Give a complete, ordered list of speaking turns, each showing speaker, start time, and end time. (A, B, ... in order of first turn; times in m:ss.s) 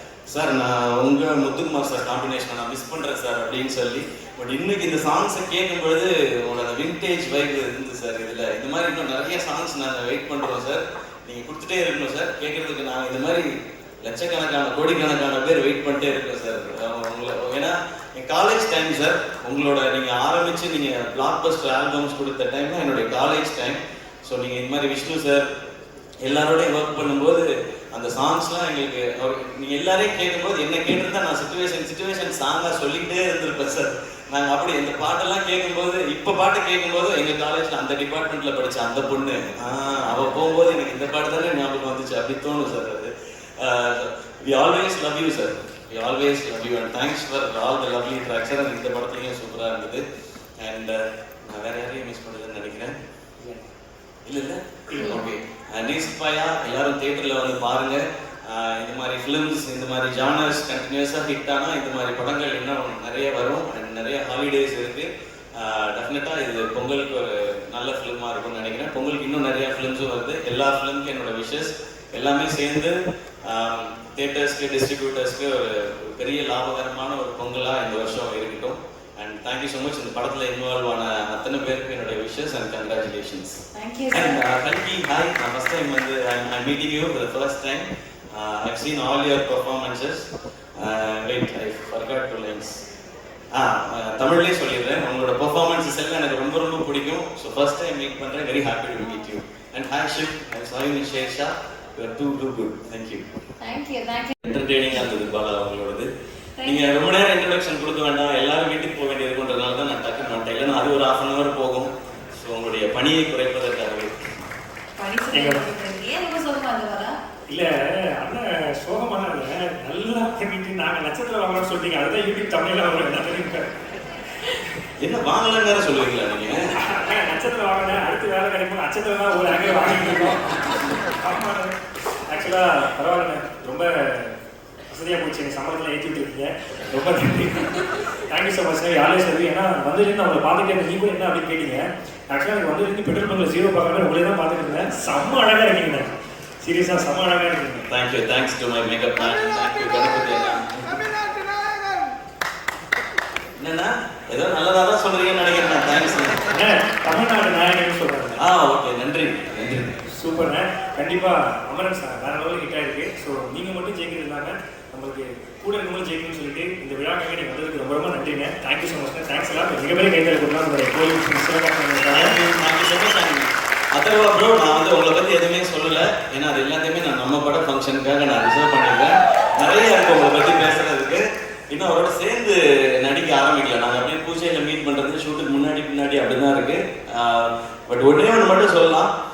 0:00.3-0:13.5 A
0:14.0-0:25.5 A
0:26.2-0:50.0 A
0:50.6-0:52.9 A
0:54.2-1:30.2 A
0:55.0-0:55.2 B
1:23.7-1:24.4 B
1:30.8-1:32.8 A
1:33.5-1:43.2 A
1:43.6-1:44.4 B
1:44.4-1:46.1 A
1:46.6-1:46.9 B
1:46.6-1:54.1 A
1:55.0-1:57.2 B
1:55.3-1:55.6 C
1:57.5-2:03.7 C
2:05.0-2:06.7 A
2:06.7-2:11.7 C
2:12.3-2:14.4 C
2:14.9-2:26.1 C
2:26.6-2:27.8 C
2:27.9-2:31.0 A
2:33.6-2:36.4 A
2:36.5-2:38.4 C
2:38.4-2:40.0 A
2:40.1-2:52.4 C
2:52.1-3:09.1 A